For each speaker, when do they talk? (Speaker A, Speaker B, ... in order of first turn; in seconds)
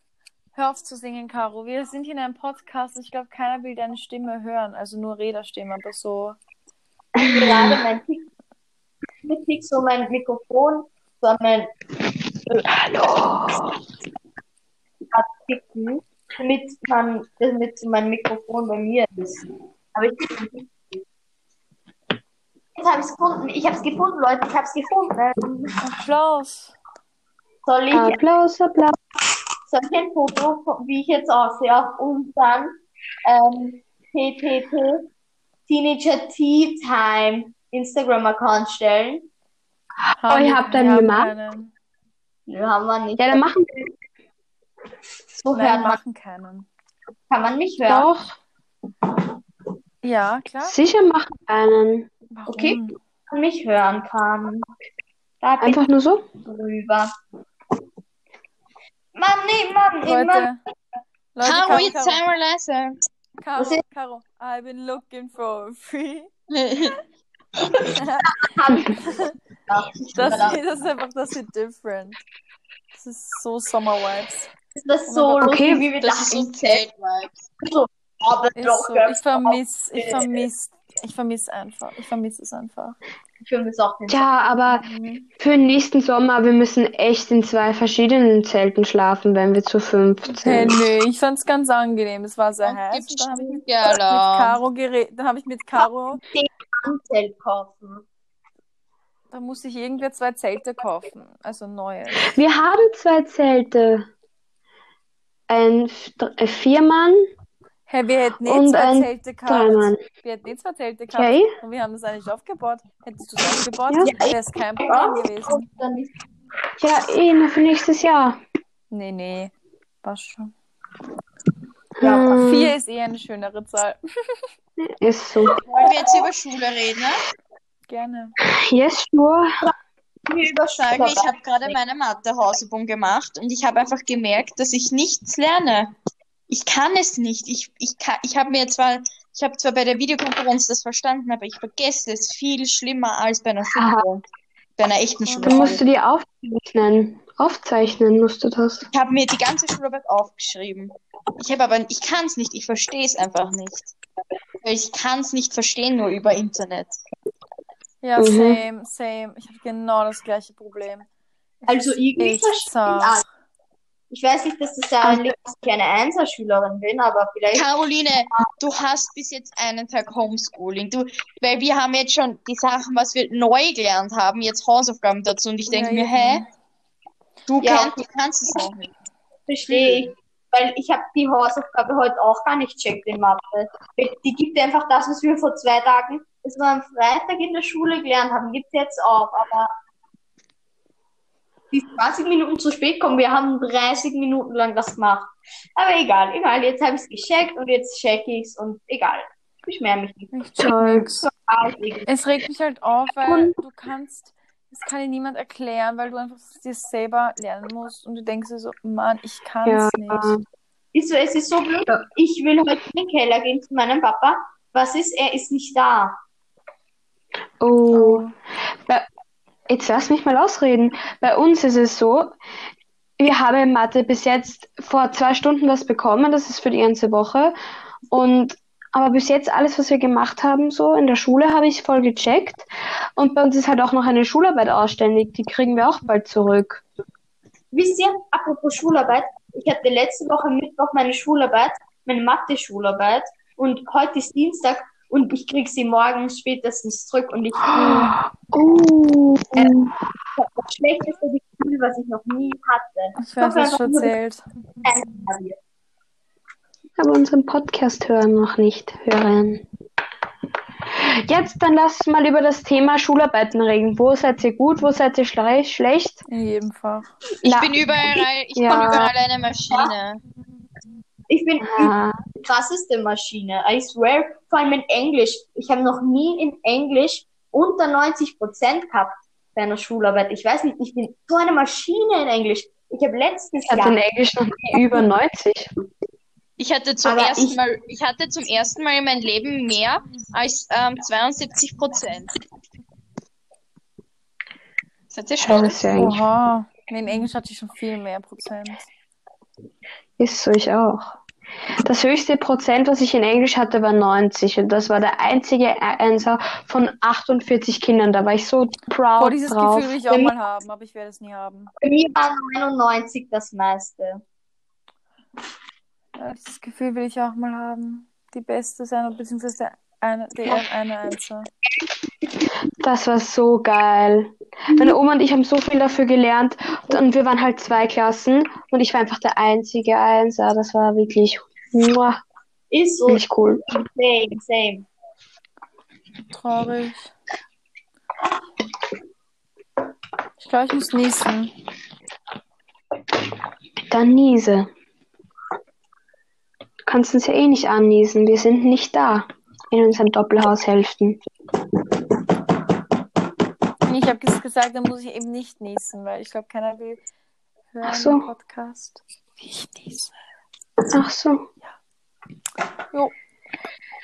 Speaker A: 0.6-6.4, 25.8-26.7, 40.2-41.7, 45.5-46.7, 50.0-50.8, 52.3-53.0, 60.0-60.6, 61.4-62.2, 63.4-66.3, 67.9-69.3, 70.1-72.2, 72.9-74.5, 75.1-75.5, 78.6-83.0, 84.7-85.3, 90.3-96.2, 99.3-102.3, 107.9-115.7, 118.9-120.5, 122.4-124.0, 127.9-128.3, 145.3-145.8, 158.0-161.1, 161.6-163.3, 175.7-176.5, 200.3-201.3, 202.1-210.4, 217.9-218.3, 253.2-254.4, 266.3-267.1, 296.0-298.9, 309.2-311.7, 316.2-321.5, 336.3-337.1, 340.4-341.5, 353.8-357.0, 357.7-360.1
Speaker B: 7.2-7.8, 12.7-13.7, 27.9-29.0, 40.3-41.3, 43.2-43.9, 47.9-48.4, 50.6-52.1, 55.6-56.3, 75.4-75.9, 84.1-84.9, 85.4-90.8, 102.2-104.1, 105.5-107.3, 108.5-110.0, 111.1-111.5, 113.9-114.1, 116.8-118.4, 122.0-122.8, 124.8-125.6, 128.6-129.5, 143.8-144.1, 145.4-148.9, 158.2-158.6, 200.6-201.1, 209.7-210.4, 217.6-218.3, 219.7-222.4, 223.2-227.5, 228.1-236.8, 247.7-249.9, 257.0-259.6, 261.0-266.2, 267.4-267.8, 268.6-269.1, 271.6-272.2, 283.7-285.7, 295.4-296.2, 300.2-301.2, 301.8-309.9, 322.8-332.2, 333.1-333.6, 343.9-344.7, 346.9-351.2, 357.8-358.3, 360.9-361.5
Speaker C: 7.2-8.3, 9.2-11.7, 15.1-20.7, 22.8-25.8, 27.7-28.2, 29.7-35.1, 35.7-39.3, 42.5-43.4, 45.4-46.0, 47.3-48.1, 52.5-52.8, 53.3-54.7, 55.4-55.8, 56.4-57.1, 59.1-60.5, 63.6-63.8, 68.3-69.1, 69.7-70.6, 74.8-76.8, 77.6-80.5, 83.4-84.3, 96.2-98.0, 114.0-116.1, 122.0-122.4, 125.5-126.2, 130.3-131.8, 161.7-163.2, 164.1-167.7, 177.6-178.0, 179.5-189.7, 191.7-200.3, 201.2-202.1, 210.9-216.2, 237.7-248.2, 250.4-254.1, 254.8-255.6, 268.7-269.1, 271.3-284.0, 287.1-287.6, 311.8-314.2, 332.7-334.9
Speaker D: 61.4-63.0, 66.5-67.0, 76.0-77.3, 92.6-94.6, 125.7-127.2, 130.8-135.9, 136.5-144.2, 144.8-145.8, 148.9-153.9, 154.6-157.0, 167.5-176.4, 177.5-178.9, 267.4-270.2, 286.6-292.4, 295.1-295.9